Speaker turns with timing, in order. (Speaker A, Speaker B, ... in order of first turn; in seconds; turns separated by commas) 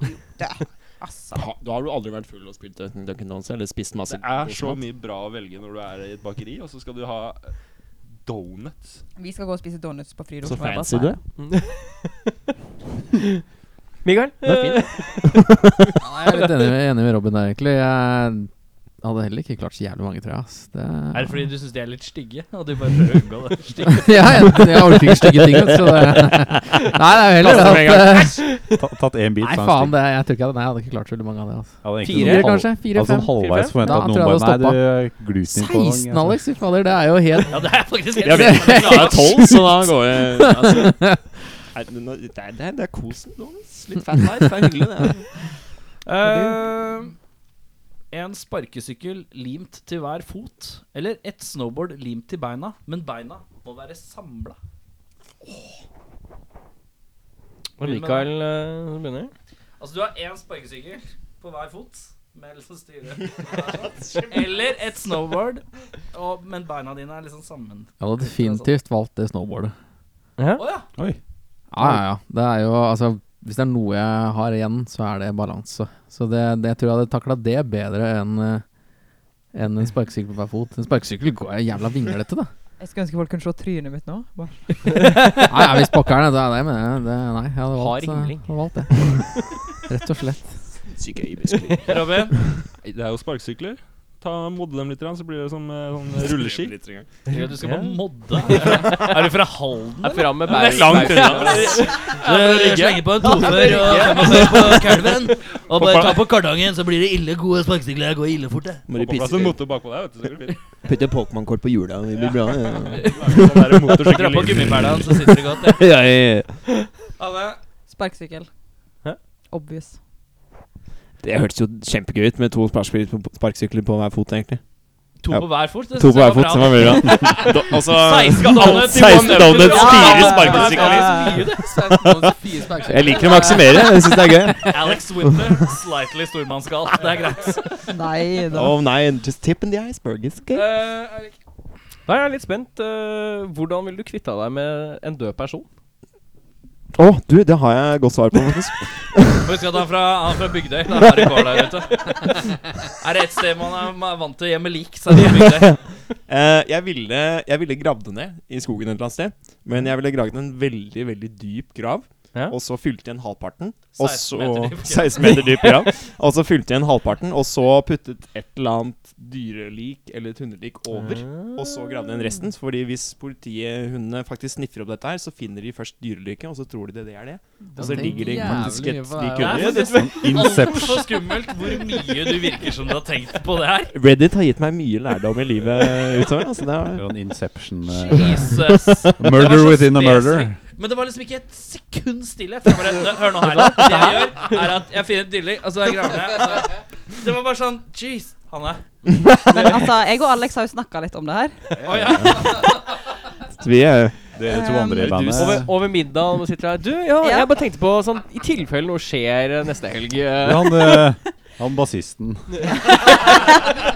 Speaker A: 0.2-1.5, Speaker B: 1.3-4.8, Speaker C: 4.1-7.5, Speaker C: 8.2-9.0, Speaker A: 9.1-11.2, Speaker B: 10.4-11.2, Speaker D: 11.4-12.3, Speaker D: 14.0-15.1, Speaker B: 14.4-15.8, Speaker E: 16.0-21.5, Speaker F: 21.1-24.3, Speaker E: 23.9-28.6, Speaker B: 25.3-26.8, Speaker B: 27.3-28.6, Speaker G: 28.7-30.0, Speaker E: 29.4-41.2, Speaker G: 31.8-36.4, Speaker D: 32.0-32.7, Speaker D: 33.3-33.8, Speaker F: 37.5-39.4, Speaker B: 38.2-41.0, Speaker B: 41.7-45.4, Speaker F: 46.0-47.1, Speaker F: 48.1-54.6, Speaker D: 57.8-59.3, Speaker F: 57.8-58.3, Speaker F: 59.8-68.7, Speaker E: 68.0-69.7, Speaker D: 70.4-70.6, Speaker F: 70.6-70.8, Speaker E: 71.7-78.7, Speaker E: 79.5-82.5, Speaker A: 82.8-85.1, Speaker E: 85.4-89.2, Speaker D: 87.7-88.5, Speaker E: 89.9-90.6, Speaker B: 90.8-92.0, Speaker F: 91.9-92.4, Speaker C: 92.8-96.8, Speaker B: 96.2-97.1, Speaker D: 97.3-99.0, Speaker F: 97.3-108.8, Speaker B: 98.7-99.0, Speaker D: 100.0-102.0, Speaker B: 100.5-102.0, Speaker C: 101.4-103.0, Speaker B: 103.1-105.1, Speaker D: 103.8-104.4, Speaker C: 105.8-106.2, Speaker B: 108.9-109.6, Speaker C: 108.9-110.6, Speaker B: 110.8-114.0, Speaker C: 112.9-115.2, Speaker F: 112.9-115.8, Speaker B: 115.5-116.7, Speaker F: 117.2-117.6, Speaker A: 117.9-118.5, Speaker A: 119.5-120.0, Speaker B: 121.2-124.6, Speaker F: 125.2-131.7, Speaker B: 125.3-134.9, Speaker A: 129.6-131.4, Speaker E: 130.8-134.8, Speaker F: 134.7-137.8, Speaker A: 137.9-138.8, Speaker B: 138.5-140.7, Speaker F: 140.5-141.3, Speaker D: 142.1-145.7, Speaker B: 146.9-149.5, Speaker F: 149.4-155.8, Speaker B: 155.4-155.8, Speaker B: 156.3-180.0, Speaker F: 163.9-165.7, Speaker D: 170.9-172.4, Speaker E: 177.7-179.7, Speaker F: 177.8-178.3, Speaker F: 179.4-183.9, Speaker D: 179.6-180.1, Speaker G: 179.7-181.2, Speaker B: 183.9-187.1, Speaker G: 186.9-188.6, Speaker F: 187.9-198.8, Speaker G: 189.2-190.6, Speaker A: 193.8-194.2, Speaker D: 193.9-194.2, Speaker B: 199.2-199.8, Speaker A: 199.5-201.7, Speaker F: 201.8-202.7, Speaker G: 202.0-202.4, Speaker B: 203.6-204.4, Speaker G: 204.3-205.8, Speaker A: 204.5-205.4, Speaker D: 205.0-210.9, Speaker A: 207.2-207.5, Speaker G: 210.4-212.7, Speaker A: 212.8-213.6